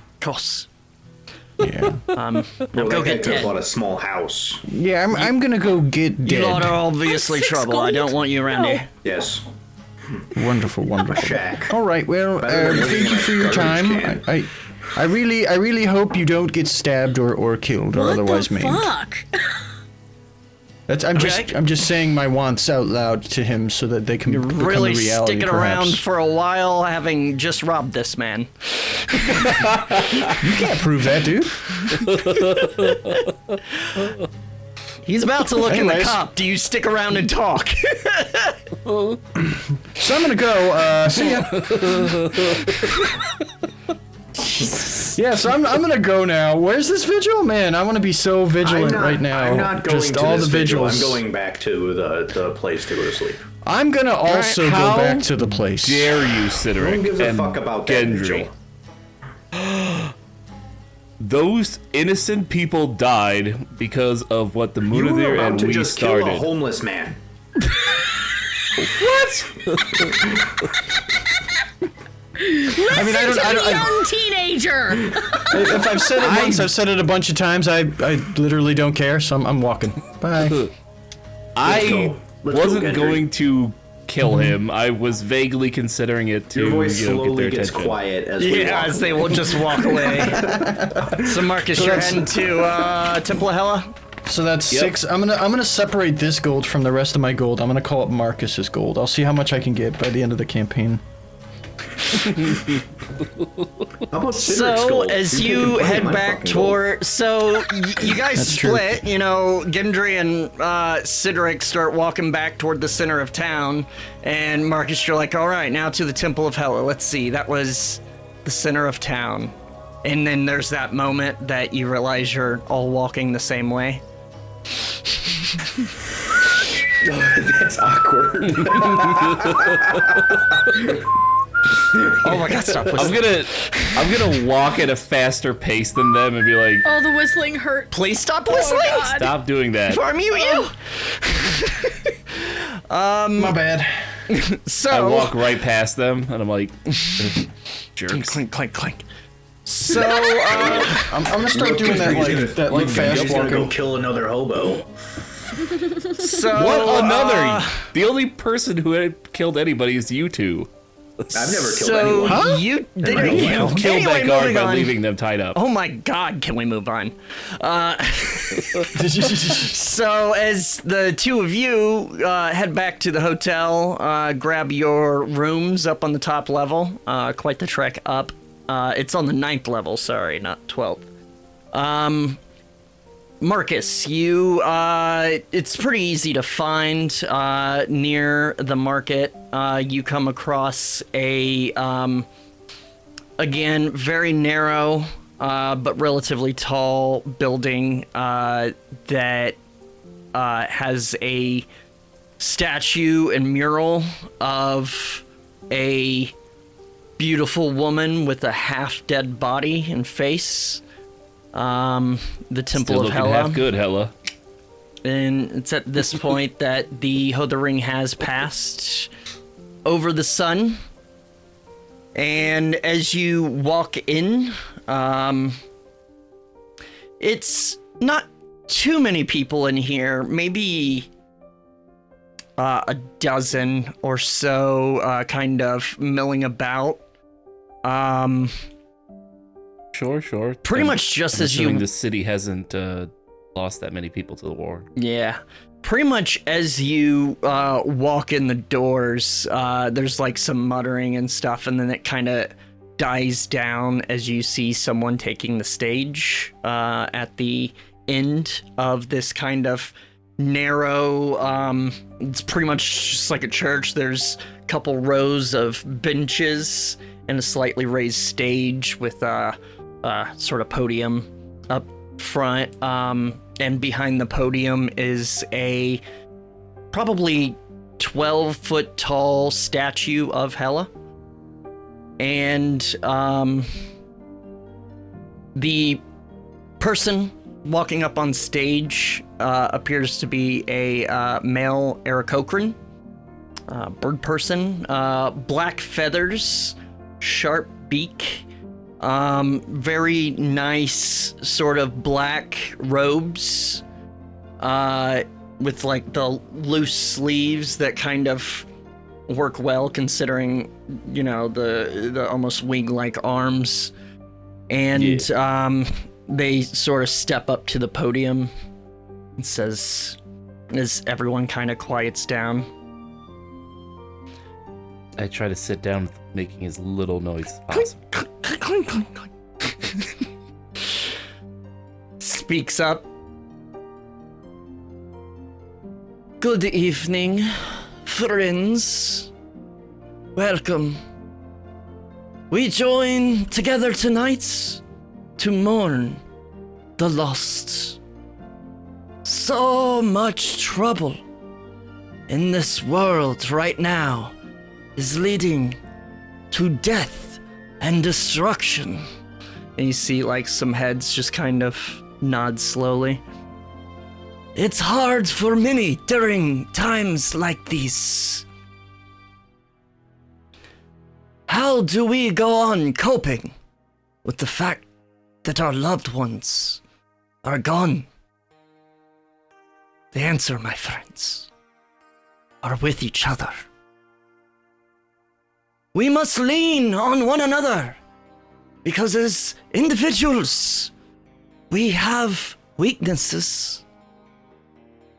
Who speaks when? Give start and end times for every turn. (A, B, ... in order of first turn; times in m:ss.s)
0:00.2-0:00.7 A
0:01.6-0:02.0 B
0:02.1-0:03.6 A
0:02.7-0:04.6 C
0:04.7-0:06.8 B
0:06.2-0:08.9 A
0:07.0-0:08.8 D
0:09.0-0:09.4 C
0:10.3-0:18.9 B
0:11.1-0:11.7 C
0:12.4-0:14.2 C
0:17.9-0:19.4 D
0:20.9-0:26.0 B
0:21.1-0:21.5 A
0:24.3-0:29.8 A
0:29.6-0:30.4 E
0:30.4-0:31.8 B
0:32.0-0:33.2 A
0:32.1-0:33.2 E
0:35.0-0:38.6 A
0:35.6-0:36.2 B
0:38.9-0:39.2 E
0:39.5-0:42.1 B
0:41.5-0:42.8 E
0:44.4-0:45.2 A
0:45.1-0:51.2 B
0:48.6-0:53.4 C
0:53.6-0:56.3 B
0:54.3-0:54.7 A
0:54.6-0:58.5 E
0:56.8-0:58.5 C
0:59.6-1:00.0 E
1:01.2-1:06.5 E
1:04.9-1:07.2 C
1:08.8-1:10.2 E
1:12.4-1:15.8 D
1:12.9-1:14.0 B
1:15.4-1:20.7 B
1:16.2-1:16.7 E
1:21.6-1:28.0 E
1:21.6-1:23.2 C
1:24.2-1:24.6 B
1:26.5-1:32.1 C
1:28.4-1:30.5 A
1:30.1-1:31.2 B
1:31.2-1:33.9 A
1:31.7-1:32.4 B
1:34.2-1:41.0 B
1:42.3-1:42.7 E
1:44.1-1:46.8 C
1:44.3-2:04.0 A
1:48.3-1:49.0 B
2:06.9-2:11.0 C
2:11.9-2:13.0 C
2:12.2-2:14.0 A
2:12.9-2:16.9 E
2:16.8-2:19.3 D
2:17.9-2:19.2 A
2:19.0-2:20.0 E
2:19.9-2:23.6 A
2:20.3-2:20.7 D
2:23.4-2:24.0 B
2:24.3-2:25.4 A
2:24.9-2:28.4 E
2:28.1-2:29.0 A
2:29.6-2:31.2 A
2:30.4-2:34.9 C
2:30.6-2:33.8 B
2:32.7-2:33.6 E
2:36.0-2:37.9 A
2:36.5-2:40.7 E
2:41.3-2:42.4 C
2:41.4-2:44.9 A
2:42.2-2:43.6 B
2:43.0-2:43.8 C
2:43.2-2:45.6 E
2:45.5-3:01.0 A
2:48.9-2:49.8 B
3:01.7-3:02.4 A
3:03.4-3:12.3 A
3:13.4-3:19.6 A
3:20.3-3:21.7 A
3:22.4-3:26.3 A
3:27.2-3:30.8 A
3:31.5-3:33.6 A
3:32.7-3:34.1 E
3:35.0-3:39.1 A
3:39.8-3:40.8 A
3:42.2-3:45.6 A
3:47.2-3:51.1 A
3:52.6-3:57.0 A
3:57.8-3:58.5 A
3:59.9-4:04.9 E
4:00.6-4:01.8 A
4:05.0-4:36.0 A
4:36.9-4:40.9 A
4:42.2-4:43.7 A
4:45.5-4:46.0 A
4:46.8-4:52.8 A
4:53.7-4:58.4 A
4:59.0-5:03.8 A
5:04.6-5:08.7 A
5:09.3-5:13.9 A
5:14.7-5:18.5 A
5:14.9-5:15.3 E
5:19.4-5:20.2 A
5:20.7-5:22.7 A
5:25.2-5:28.0 E
5:27.7-5:30.1 A
5:32.2-5:33.0 A
5:36.4-5:39.3 A
5:40.4-5:41.0 A
5:42.5-5:44.8 A
5:45.4-5:46.2 A
5:47.0-5:48.0 A
5:49.2-5:51.2 A
5:52.3-5:54.3 A
5:55.0-5:55.8 A
5:56.5-5:59.0 A
5:59.8-6:03.2 A
6:04.6-6:08.4 A
6:11.5-6:13.5 A
6:14.2-6:14.8 A
6:15.4-6:16.8 A
6:17.4-6:18.1 A
6:20.1-6:21.5 A
6:22.6-6:23.6 A
6:25.9-6:28.0 A
6:28.8-6:30.9 A
6:31.7-6:33.8 A